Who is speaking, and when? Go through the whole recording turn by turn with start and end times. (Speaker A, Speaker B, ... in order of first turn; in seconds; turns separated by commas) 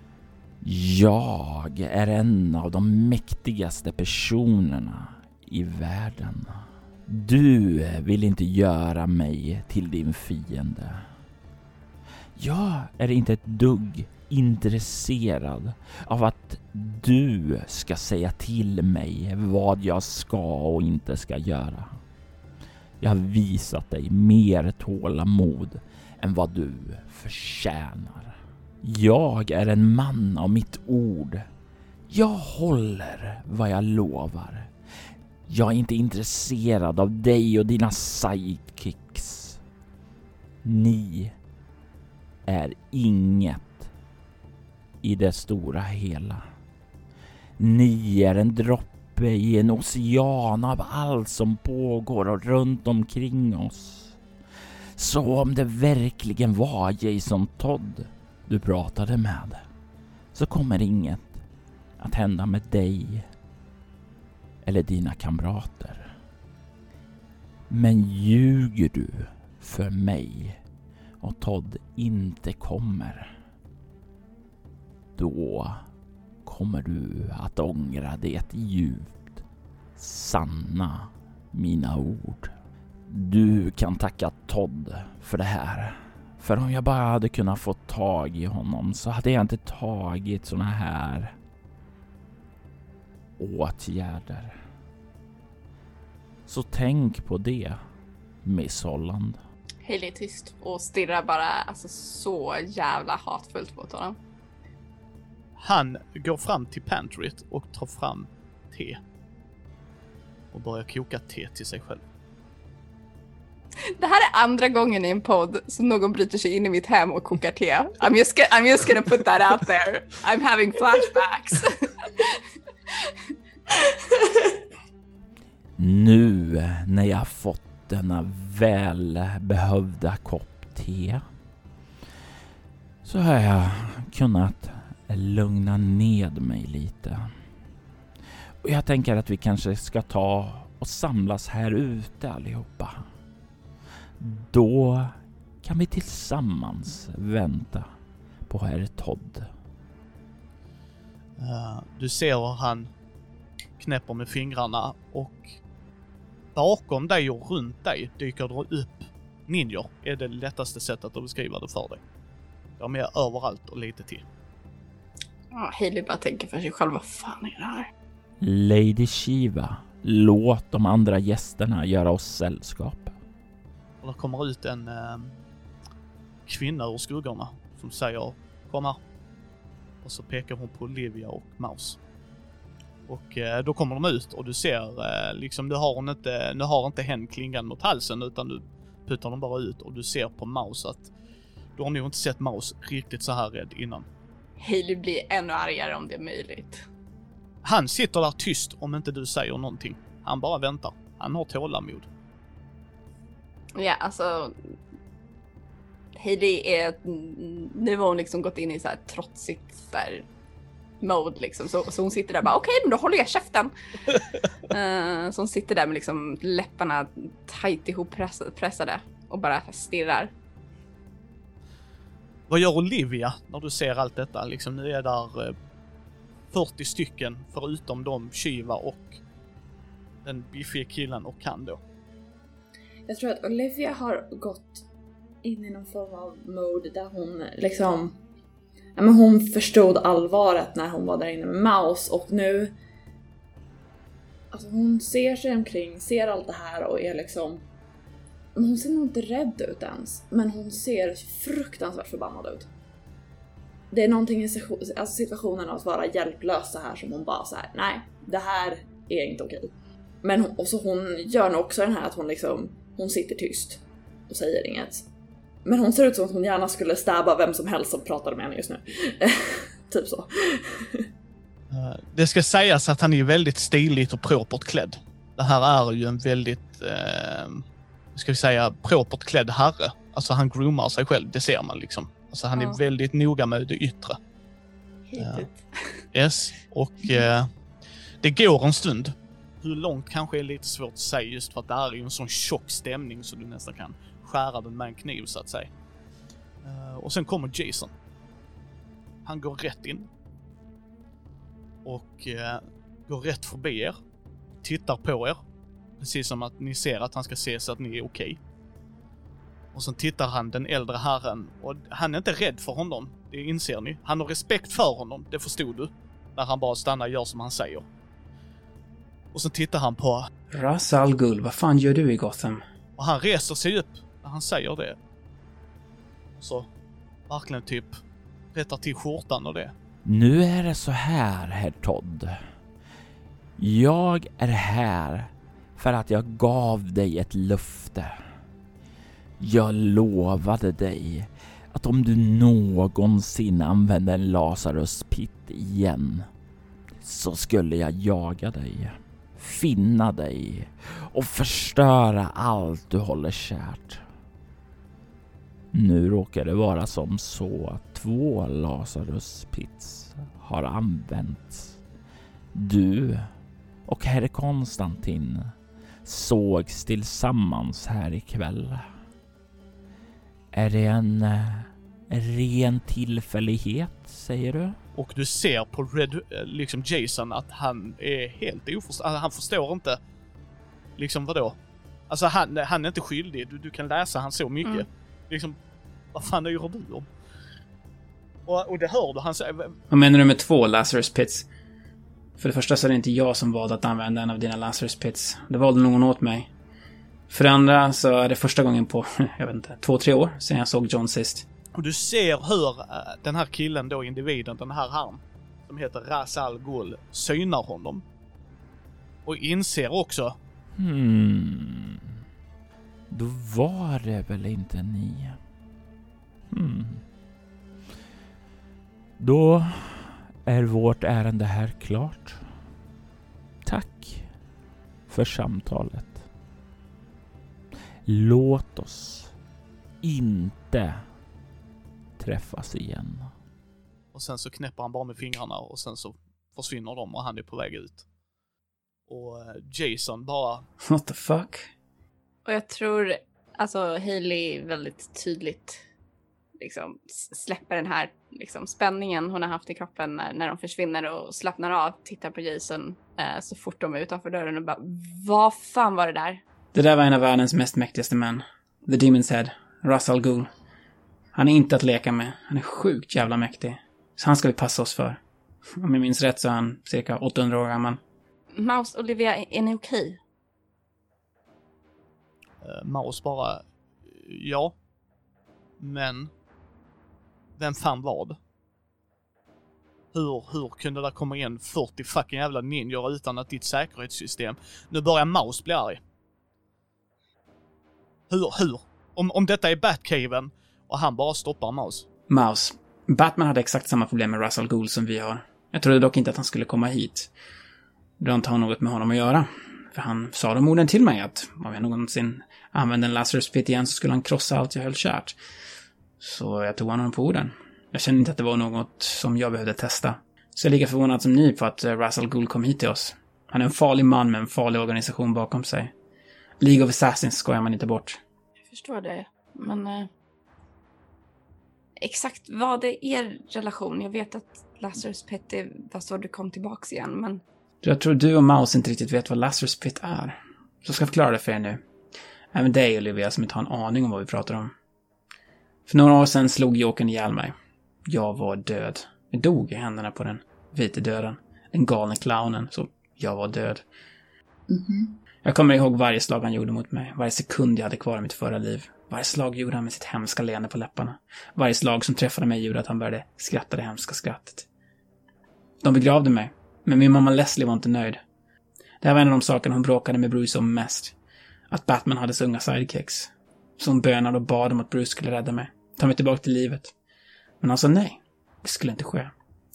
Speaker A: 0.6-11.0, Speaker A: 12.4-22.0, Speaker A: 23.0-31.5, Speaker A: 32.1-34.7, Speaker A: 35.5-39.6, Speaker A: 40.6-41.4, Speaker A: 42.5-43.9, Speaker A: 45.0-46.4, Speaker A: 47.6-54.2, Speaker A: 55.0-59.6, Speaker A: 60.3-61.4, Speaker A: 62.0-63.3, Speaker A: 64.6-66.1, Speaker A: 67.7-70.6, Speaker A: 71.2-73.3, Speaker A: 75.2-75.8, Speaker A: 76.5-79.4, Speaker A: 80.0-82.5, Speaker A: 83.1-91.3, Speaker A: 93.4-94.6, Speaker A: 96.5-97.8, Speaker A: 98.4-99.4, Speaker B: 99.8-104.2, Speaker C: 105.6-109.0, Speaker C: 110.5-112.0, Speaker B: 114.0-124.5, Speaker A: 125.8-131.2, Speaker A: 133.0-137.3, Speaker A: 138.6-143.1, Speaker A: 144.2-147.9, Speaker A: 148.5-149.5, Speaker C: 151.4-152.9, Speaker C: 153.8-155.6, Speaker C: 156.6-162.0, Speaker C: 162.8-164.2, Speaker B: 165.5-167.9, Speaker A: 168.4-173.2, Speaker C: 174.0-175.3, Speaker C: 176.5-179.0, Speaker C: 180.0-182.0, Speaker C: 183.1-191.1, Speaker C: 191.8-194.1, Speaker B: 194.6-196.9, Speaker C: 197.7-202.1, Speaker B: 203.8-204.7, Speaker B: 206.2-210.2, Speaker B: 211.0-220.3, Speaker C: 222.5-225.6, Speaker C: 226.5-229.2, Speaker C: 230.2-231.8, Speaker D: 233.1-234.8, Speaker D: 235.4-238.2, Speaker D: 239.0-242.8, Speaker D: 244.5-247.7, Speaker D: 248.6-252.7, Speaker D: 253.9-265.1, Speaker D: 265.6-271.1, Speaker C: 271.7-277.6, Speaker C: 278.1-284.2, Speaker B: 285.1-286.1, Speaker C: 285.2-285.5, Speaker C: 286.1-287.5, Speaker C: 288.2-295.7, Speaker C: 296.6-297.9, Speaker C: 299.2-300.1, Speaker C: 301.9-304.0, Speaker C: 304.6-305.4, Speaker C: 306.0-308.4, Speaker C: 309.7-317.9, Speaker C: 319.3-320.3, Speaker E: 320.5-322.6, Speaker C: 323.0-325.0, Speaker C: 326.4-326.7, Speaker C: 327.3-328.0, Speaker C: 328.5-329.7, Speaker A: 330.1-332.4, Speaker A: 333.6-338.2, Speaker A: 339.4-346.3, Speaker A: 347.0-354.0, Speaker A: 355.7-361.8, Speaker A: 362.5-363.3, Speaker A: 363.9-365.5, Speaker A: 366.1-368.9, Speaker A: 370.5-374.8, Speaker C: 374.9-380.0, Speaker C: 381.0-381.6, Speaker C: 382.1-385.6, Speaker C: 386.1-387.1, Speaker C: 388.5-389.8, Speaker E: 389.9-391.5, Speaker E: 392.4-396.5, Speaker E: 397.3-401.5, Speaker C: 401.8-408.0, Speaker C: 409.3-410.4, Speaker A: 410.8-412.0, Speaker A: 413.1-415.4, Speaker A: 416.5-417.0, Speaker A: 419.2-422.4, Speaker A: 423.6-424.3, Speaker A: 425.1-426.2, Speaker A: 428.1-429.3, Speaker A: 430.0-431.0, Speaker A: 432.2-433.3, Speaker C: 434.1-438.1, Speaker C: 439.1-440.7, Speaker E: 440.8-441.7, Speaker B: 442.4-445.8, Speaker B: 446.6-456.4, Speaker E: 456.7-460.5, Speaker E: 461.4-465.2, Speaker E: 465.8-468.0, Speaker B: 468.5-470.2, Speaker C: 472.6-474.8, Speaker C: 475.8-476.3, Speaker C: 477.6-478.4, Speaker C: 480.1-486.0, Speaker C: 488.3-492.1, Speaker E: 492.3-497.3, Speaker E: 498.2-505.4, Speaker E: 506.2-515.9, Speaker E: 516.6-518.2, Speaker B: 518.6-520.1, Speaker B: 522.0-527.4, Speaker E: 527.8-531.8, Speaker E: 532.5-534.7, Speaker E: 535.9-537.5, Speaker E: 538.1-543.8, Speaker D: 544.7-545.2, Speaker E: 545.5-554.7, Speaker E: 555.8-558.2, Speaker E: 559.0-561.1, Speaker E: 561.7-566.9, Speaker E: 567.6-569.3